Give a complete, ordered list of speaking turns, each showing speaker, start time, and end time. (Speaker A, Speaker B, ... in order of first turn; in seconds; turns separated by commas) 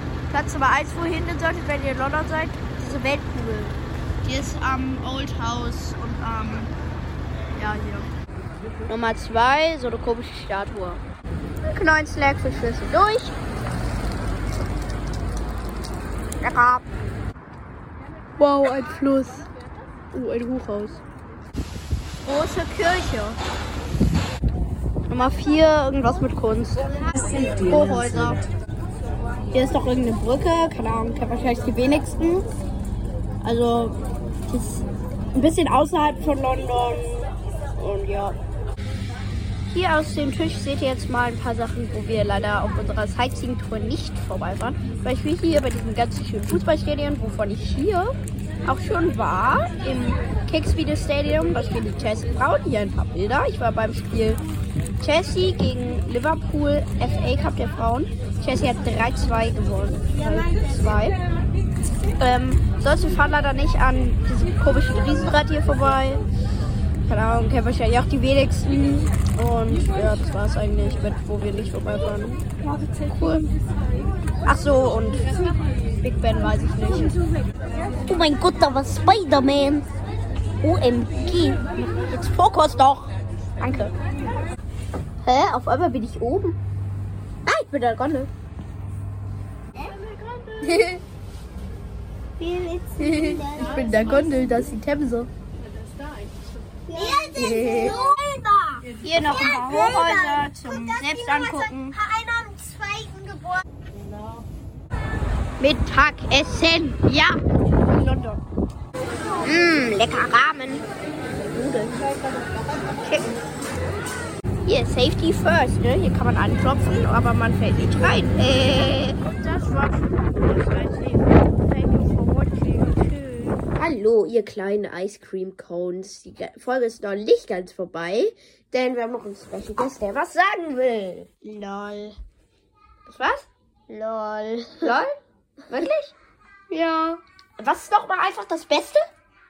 Speaker A: 0.3-6.7, Speaker A: 7.5-8.1, Speaker A: 8.9-11.0, Speaker A: 11.6-13.3, Speaker A: 16.4-16.9, Speaker A: 18.4-19.5, Speaker A: 20.1-21.0, Speaker A: 22.2-23.4, Speaker A: 25.1-26.9, Speaker A: 27.6-28.4, Speaker A: 29.5-32.5, Speaker A: 33.4-34.0, Speaker A: 34.5-38.4, Speaker A: 39.7-48.1, Speaker A: 48.6-54.4, Speaker A: 55.0-61.1, Speaker A: 62.2-66.2, Speaker A: 67.1-72.5, Speaker A: 73.1-73.5, Speaker A: 74.5-77.2, Speaker A: 78.1-79.9, Speaker A: 80.6-83.9, Speaker A: 85.2-86.6, Speaker A: 87.5-88.3, Speaker A: 90.6-91.0, Speaker B: 92.4-94.1, Speaker A: 93.0-95.3, Speaker B: 96.9-103.6, Speaker A: 97.3-98.0, Speaker A: 99.0-102.0, Speaker A: 105.6-108.4, Speaker A: 109.4-110.8, Speaker A: 111.5-112.0, Speaker A: 113.0-113.4, Speaker A: 114.7-132.2, Speaker A: 133.1-133.5, Speaker B: 133.9-134.9, Speaker A: 134.8-135.1, Speaker A: 135.7-136.2, Speaker A: 136.7-139.0